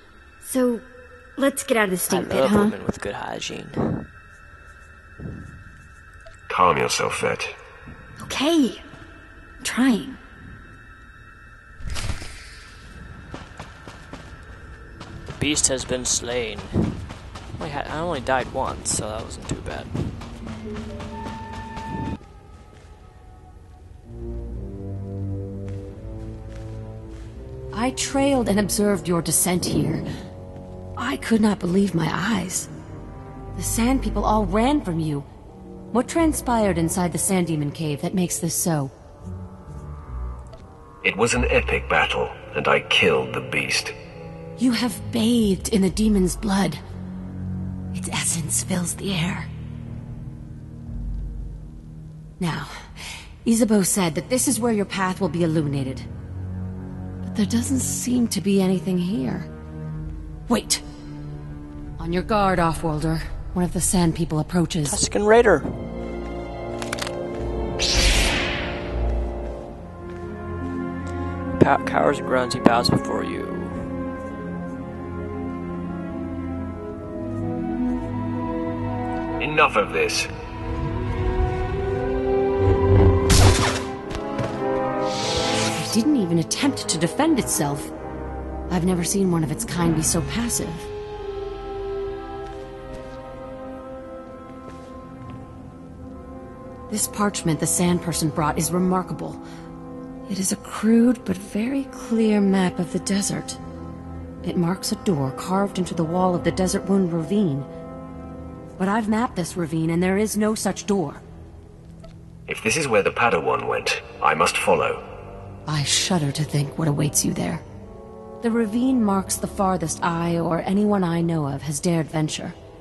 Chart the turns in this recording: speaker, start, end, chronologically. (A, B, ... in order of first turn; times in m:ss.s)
0:00.4-0:02.8 A
0:02.1-0:04.1 B
0:06.5-0:07.6 C
0:08.2-0:08.8 A
0:09.6-0:10.2 A
0:15.3-0:17.0 B
0:17.6-0:20.2 B
0:27.7-0:30.0 D
0:31.0-0:32.7 D
0:33.6-0:35.3 D
0:35.9-0:38.9 D
0:41.0-0:44.0 C
0:44.6-0:46.8 D
0:47.9-0:49.5 D
0:52.4-0:52.9 D
0:53.4-0:56.1 D
0:57.2-0:59.5 D
1:00.5-1:00.8 D
1:02.0-1:05.0 D
1:04.8-1:05.8 B
1:11.5-1:13.9 B
1:19.4-1:20.3 C
1:25.8-1:27.9 D
1:28.7-1:30.9 D
1:36.9-1:39.4 D
1:40.3-1:43.6 D
1:44.4-1:47.7 D
1:48.8-1:51.2 D
1:52.5-1:55.0 C
1:55.7-1:57.6 D
1:58.4-2:02.6 D